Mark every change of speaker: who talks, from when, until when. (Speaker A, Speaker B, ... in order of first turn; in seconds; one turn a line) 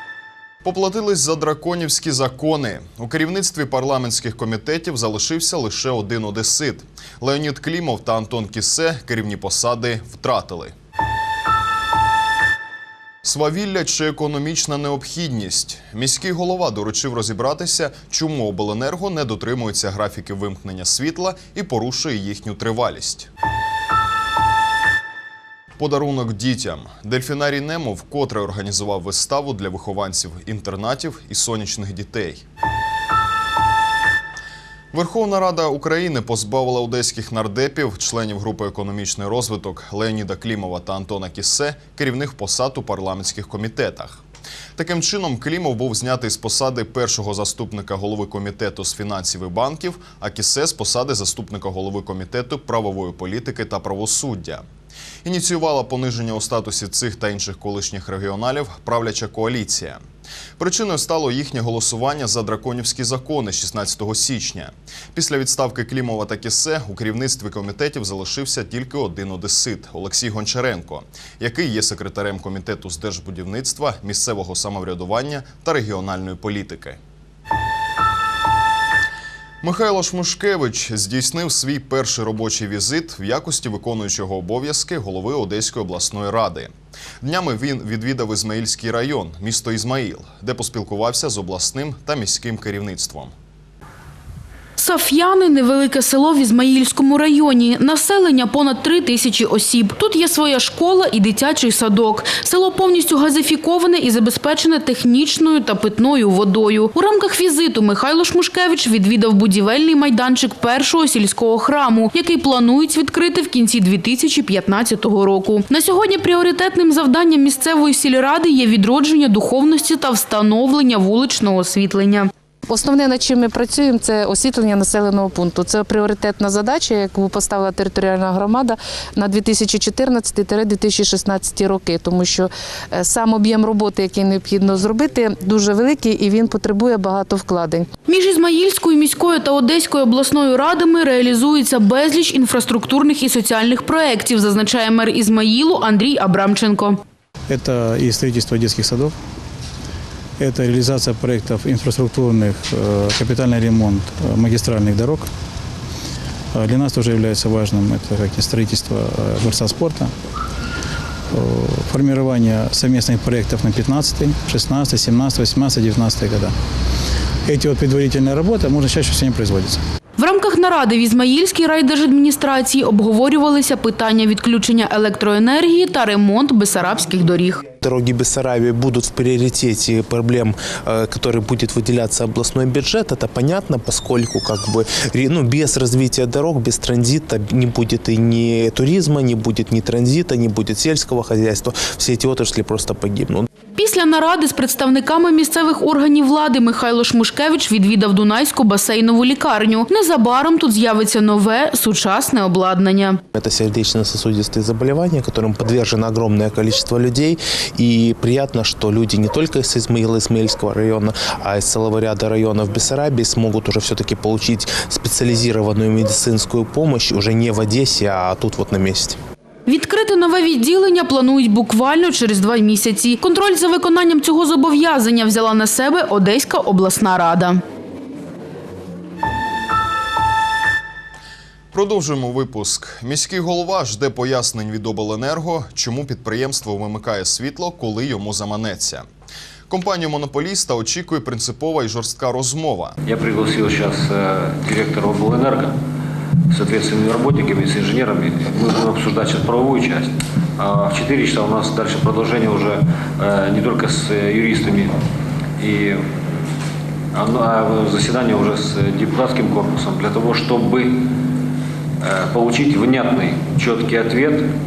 Speaker A: 0.6-10.7
Speaker A: 13.2-23.3
Speaker A: 25.8-32.4
Speaker A: 34.9-44.2
Speaker A: 44.8-54.6
Speaker A: 55.2-60.0
Speaker A: 60.6-77.0
Speaker A: 79.6-93.3
Speaker B: 94.8-122.3
Speaker C: 122.7-137.9
Speaker B: 138.1-147.0
Speaker D: 147.5-149.1
Speaker D: 150.4-155.3
Speaker D: 156.5-160.1
Speaker D: 161.3-166.5
Speaker D: 167.5-169.8
Speaker B: 170.2-177.6
Speaker E: 177.8-193.5
Speaker B: 193.8-203.2
Speaker E: 203.3-219.2
Speaker B: 219.7-227.6
Speaker A: 231.7-239.1
Speaker A: 239.7-243.0
Speaker F: 243.1-245.8
Speaker F: 246.5-254.9
Speaker F: 255.6-256.0
Speaker F: 257.1-261.1
Speaker F: 262.0-264.5